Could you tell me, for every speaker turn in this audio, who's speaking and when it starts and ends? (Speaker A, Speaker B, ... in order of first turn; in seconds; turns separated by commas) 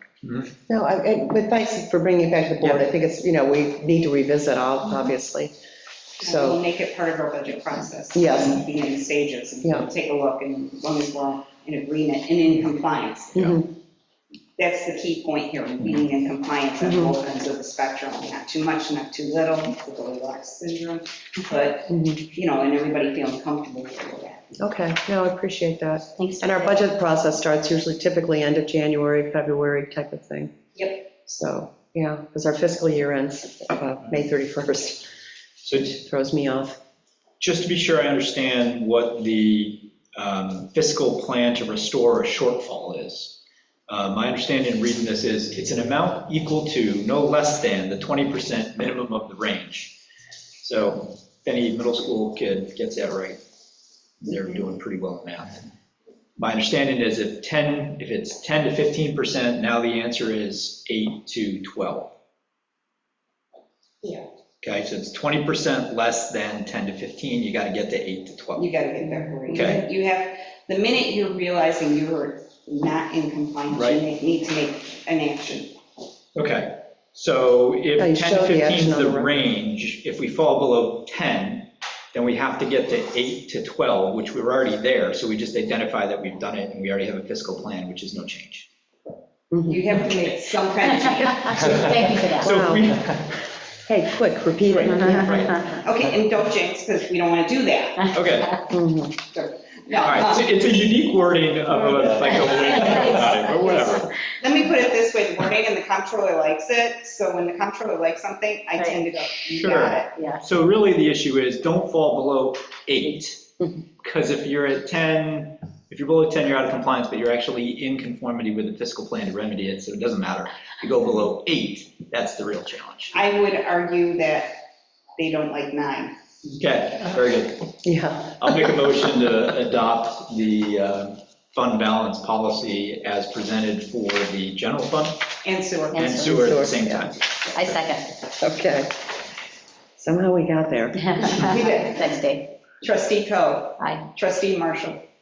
Speaker A: 0.2-0.5, Speaker B: 0.7-5.5, Speaker B: 6.2-6.6, Speaker C: 6.2-13.6, Speaker B: 8.1-8.6, Speaker B: 9.6-9.9, Speaker B: 13.3-13.7, Speaker C: 14.6-24.5, Speaker B: 16.8-17.1, Speaker B: 21.9-22.2, Speaker B: 24.6-30.5, Speaker D: 26.2-26.8, Speaker C: 30.7-31.1, Speaker B: 31.1-35.1, Speaker A: 35.6-35.9, Speaker B: 35.8-36.8, Speaker A: 37.4-43.4, Speaker A: 43.9-50.0, Speaker A: 50.6-53.4, Speaker A: 54.2-55.6, Speaker A: 56.4-62.1, Speaker A: 64.6-68.7, Speaker C: 68.5-75.7, Speaker B: 69.0-69.8, Speaker A: 69.5-69.8, Speaker A: 73.7-74.0, Speaker A: 76.3-88.7, Speaker B: 78.0-79.3, Speaker B: 89.5-89.8, Speaker C: 89.6-91.8, Speaker D: 90.8-92.6, Speaker A: 91.5-93.2, Speaker B: 92.4-92.9, Speaker B: 93.9-95.7, Speaker A: 94.7-95.5, Speaker D: 94.9-95.5, Speaker C: 95.7-98.1, Speaker A: 98.1-98.6, Speaker B: 98.7-99.1, Speaker C: 99.2-100.5, Speaker A: 100.0-104.1, Speaker D: 101.9-104.0, Speaker C: 102.6-110.2, Speaker D: 108.7-109.0, Speaker A: 109.5-113.4, Speaker D: 110.1-110.4, Speaker A: 114.0-123.2, Speaker C: 123.1-124.5, Speaker C: 125.2-126.1, Speaker A: 126.5-127.7, Speaker B: 127.8-128.6, Speaker A: 128.3-135.3, Speaker C: 135.4-136.7, Speaker A: 135.9-137.8, Speaker D: 135.9-136.3, Speaker B: 136.1-137.1, Speaker D: 137.5-138.2, Speaker B: 138.4-139.0, Speaker B: 140.0-141.0, Speaker D: 140.9-142.5, Speaker C: 141.5-142.2, Speaker C: 142.8-145.0, Speaker D: 143.8-144.1